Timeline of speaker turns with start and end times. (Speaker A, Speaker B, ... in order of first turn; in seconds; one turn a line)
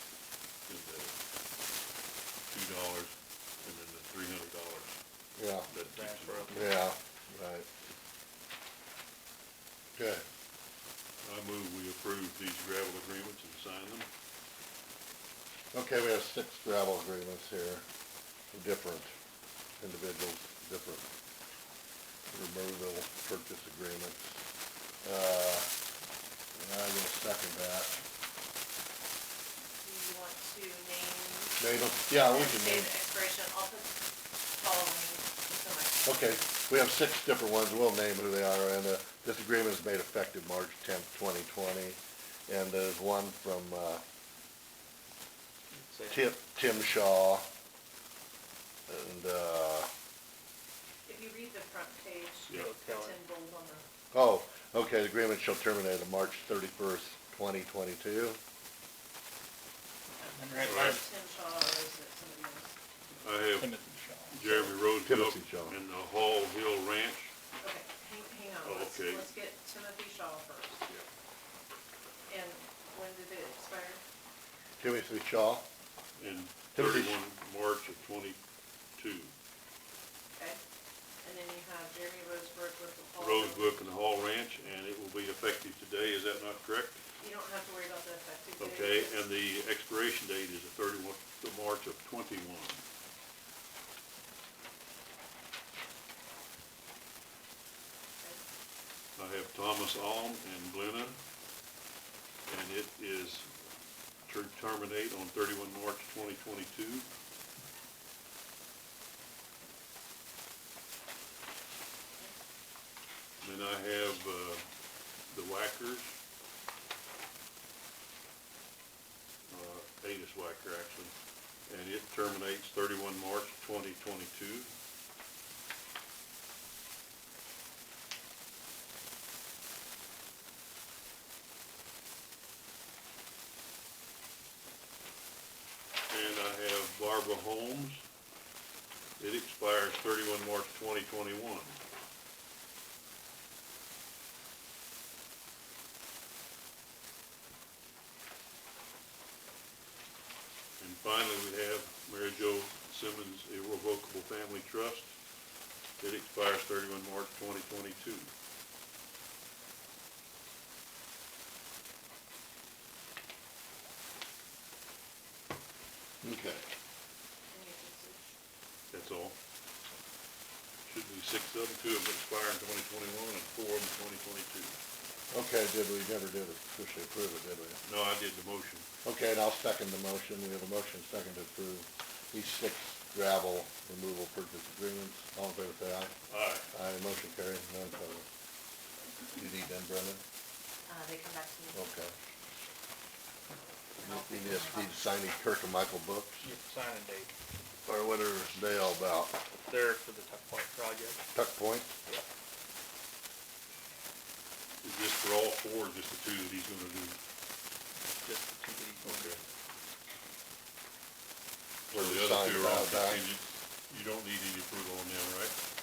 Speaker A: 0.7-1.1
Speaker A: 2.5-4.9
Speaker B: 5.4-5.7
Speaker A: 5.7-6.7
Speaker C: 5.8-6.7
Speaker B: 6.5-7.7
Speaker B: 9.9-10.2
Speaker A: 11.2-14.1
Speaker B: 15.7-17.8
Speaker B: 18.5-19.1
Speaker B: 19.8-21.0
Speaker B: 22.3-24.3
Speaker B: 25.0-25.7
Speaker B: 26.6-28.0
Speaker D: 29.7-33.9
Speaker B: 31.6-32.9
Speaker D: 34.6-36.4
Speaker B: 36.0-44.0
Speaker C: 45.7-46.2
Speaker B: 46.1-47.4
Speaker B: 48.9-49.9
Speaker D: 51.0-53.8
Speaker C: 52.5-53.2
Speaker B: 54.1-58.4
Speaker C: 60.2-61.0
Speaker D: 60.2-62.8
Speaker A: 60.6-61.0
Speaker A: 63.2-63.8
Speaker C: 63.6-64.8
Speaker A: 64.3-67.3
Speaker B: 65.0-65.8
Speaker D: 67.6-70.8
Speaker A: 68.6-69.3
Speaker D: 72.3-74.0
Speaker B: 74.8-75.7
Speaker A: 76.2-78.4
Speaker B: 76.7-77.2
Speaker A: 79.0-79.3
Speaker D: 81.2-83.9
Speaker A: 83.2-87.0
Speaker D: 87.2-89.2
Speaker A: 88.6-92.8
Speaker A: 99.2-101.2
Speaker A: 102.5-103.5
Speaker A: 104.3-107.1
Speaker A: 113.4-114.6
Speaker A: 115.3-116.1
Speaker A: 119.5-121.1
Speaker A: 121.7-124.7
Speaker A: 136.1-138.0
Speaker A: 139.2-141.8
Speaker A: 150.8-155.1
Speaker A: 156.0-158.3
Speaker B: 166.2-166.7
Speaker D: 167.5-168.3
Speaker A: 168.9-169.4
Speaker A: 170.8-174.8
Speaker B: 175.3-177.8
Speaker A: 177.8-178.9
Speaker B: 179.0-186.1
Speaker A: 186.3-186.7
Speaker B: 186.7-188.2
Speaker B: 189.3-190.2
Speaker D: 190.9-191.8
Speaker B: 191.7-192.1
Speaker D: 194.0-195.1
Speaker B: 194.0-196.5
Speaker C: 196.4-197.3
Speaker B: 197.8-199.4
Speaker C: 199.7-201.2
Speaker B: 201.3-201.9
Speaker A: 204.8-207.2
Speaker C: 208.2-209.4
Speaker A: 209.0-209.4
Speaker A: 211.9-215.5
Speaker B: 211.9-213.3